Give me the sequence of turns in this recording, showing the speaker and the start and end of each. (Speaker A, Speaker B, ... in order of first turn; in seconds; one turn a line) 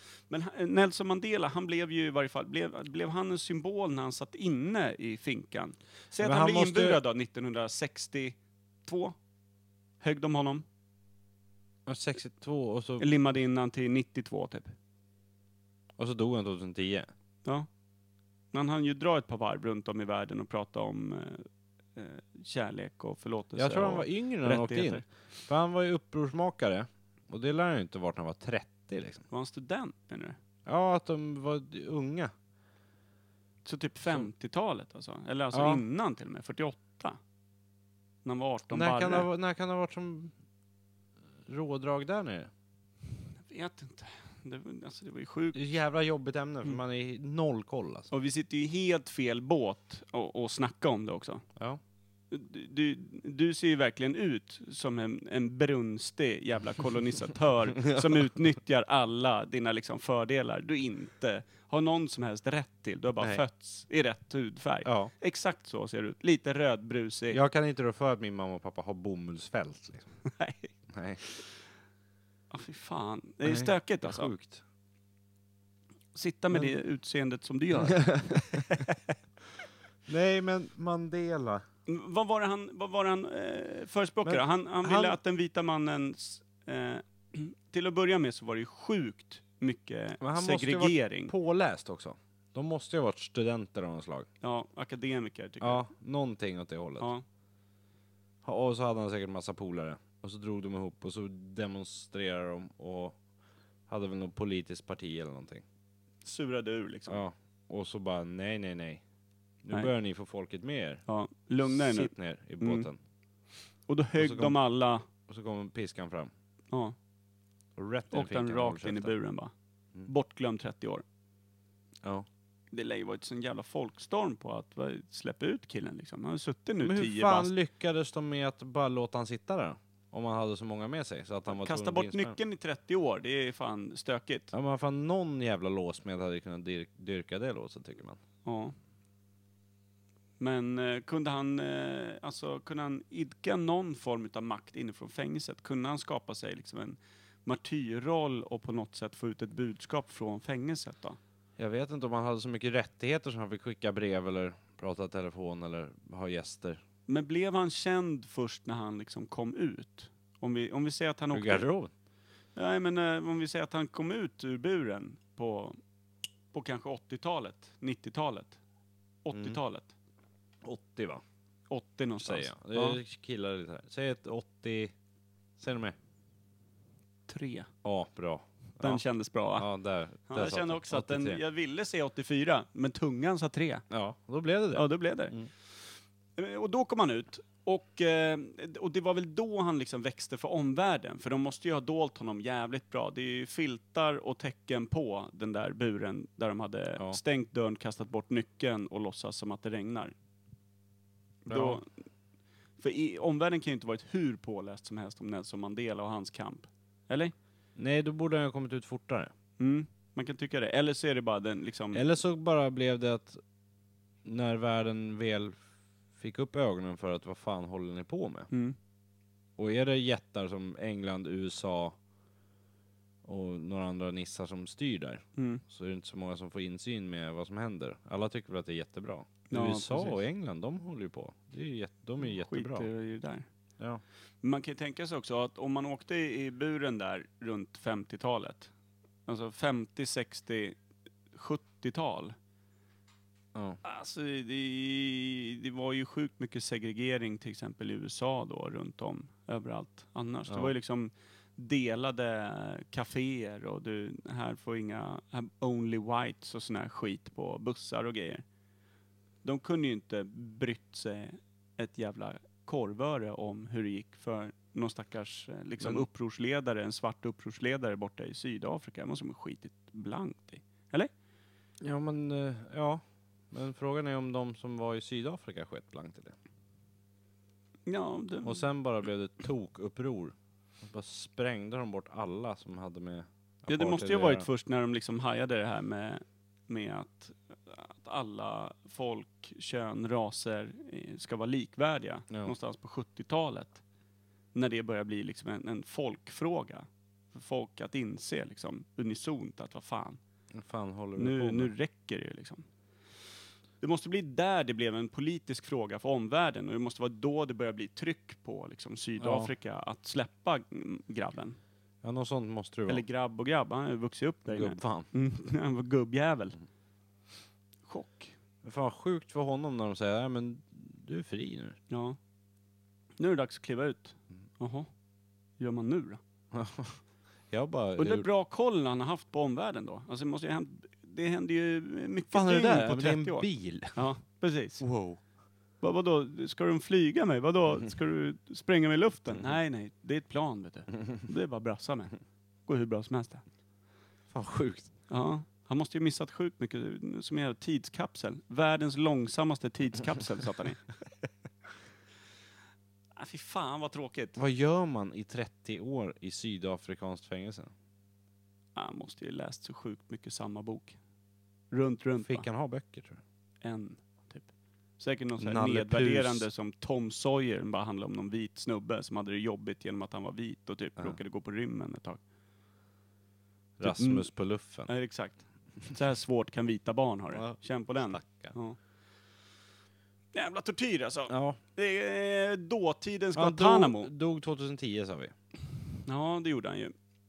Speaker A: 0.3-9.2
Speaker B: 6.2-7.0
Speaker A: 10.0-10.6
Speaker B: 11.8-13.1
Speaker A: 13.0-14.7
Speaker B: 16.0-17.1
Speaker A: 18.5-25.1
Speaker B: 23.6-29.2
Speaker A: 29.3-30.4
Speaker B: 30.6-32.3
Speaker A: 33.6-37.2
Speaker B: 35.5-35.8
Speaker A: 38.2-39.3
Speaker B: 38.7-40.3
Speaker B: 41.5-42.5
Speaker A: 43.4-45.6
Speaker B: 45.5-48.1
Speaker A: 48.1-51.4
Speaker A: 52.3-67.4
Speaker B: 57.8-58.2
Speaker B: 64.8-65.1
Speaker B: 67.3-70.1
Speaker A: 70.3-70.7
Speaker B: 70.9-71.2
Speaker A: 72.5-74.3
Speaker B: 73.4-74.6
Speaker A: 76.1-79.0
Speaker B: 77.9-78.8
Speaker B: 80.1-81.6
Speaker A: 81.9-91.3
Speaker B: 84.2-85.2
Speaker B: 90.2-94.3
Speaker A: 94.4-95.8
Speaker B: 95.6-97.1
Speaker A: 97.0-97.2
Speaker B: 98.4-103.2
Speaker B: 103.9-105.6
Speaker A: 106.2-107.2
Speaker B: 107.1-109.0
Speaker B: 109.6-111.0
Speaker A: 111.1-112.9
Speaker B: 111.7-113.0
Speaker A: 113.9-115.0
Speaker B: 114.2-114.6
Speaker B: 115.3-116.3
Speaker B: 117.8-119.1
Speaker A: 118.1-119.5
Speaker A: 120.0-121.0
Speaker A: 122.7-127.5
Speaker B: 126.8-132.4
Speaker A: 131.5-134.5
Speaker B: 134.5-138.2
Speaker A: 138.4-138.7
Speaker A: 140.4-151.2
Speaker B: 151.6-156.8
Speaker A: 157.1-161.6
Speaker B: 161.3-161.9
Speaker A: 162.5-165.8
Speaker A: 166.5-168.6
Speaker A: 169.2-169.9
Speaker B: 169.3-169.6
Speaker B: 170.6-171.2
Speaker A: 171.7-173.0
Speaker B: 172.2-174.9
Speaker B: 175.6-175.9
Speaker A: 177.3-177.7
Speaker B: 177.8-179.0
Speaker A: 178.8-179.7
Speaker B: 179.5-181.4
Speaker A: 180.3-183.8
Speaker B: 183.9-185.5
Speaker A: 184.7-185.3
Speaker A: 186.3-200.1
Speaker A: 201.4-201.8
Speaker B: 201.5-201.8
Speaker A: 202.8-207.3
Speaker B: 207.8-209.3
Speaker A: 209.6-212.0
Speaker B: 211.9-213.4
Speaker B: 214.2-215.6
Speaker B: 216.2-218.5
Speaker A: 218.5-218.8
Speaker B: 219.6-221.9
Speaker B: 223.2-232.9
Speaker A: 225.4-225.6
Speaker A: 229.5-230.2
Speaker A: 232.2-233.5
Speaker A: 234.4-238.7
Speaker A: 239.2-240.8
Speaker A: 241.3-242.3
Speaker A: 243.8-258.4
Speaker A: 259.4-271.1
Speaker B: 265.8-266.1
Speaker B: 271.8-276.3
Speaker A: 277.9-278.6
Speaker B: 278.4-284.5
Speaker A: 283.7-293.8
Speaker A: 294.5-300.2
Speaker B: 300.5-301.7
Speaker A: 301.2-302.6
Speaker A: 303.8-311.6
Speaker B: 309.2-309.5
Speaker B: 312.0-313.0
Speaker A: 312.9-316.6
Speaker B: 314.5-315.1
Speaker A: 317.9-318.3
Speaker B: 318.6-321.8
Speaker A: 321.9-322.2
Speaker A: 323.2-324.9
Speaker A: 325.6-326.2
Speaker B: 326.5-328.3
Speaker A: 328.0-334.8
Speaker B: 332.3-334.1
Speaker B: 334.8-335.2
Speaker A: 335.8-343.4
Speaker B: 344.3-344.9
Speaker A: 345.1-350.9
Speaker A: 353.1-354.4
Speaker B: 354.4-357.7
Speaker A: 358.7-361.0
Speaker A: 361.7-362.5
Speaker B: 362.2-363.2
Speaker A: 363.6-372.2
Speaker B: 365.4-366.5
Speaker B: 373.8-374.9
Speaker A: 373.8-374.3
Speaker A: 374.9-378.8
Speaker B: 377.3-378.5
Speaker A: 380.3-384.1
Speaker B: 381.3-381.6
Speaker B: 383.3-385.3
Speaker A: 386.0-386.9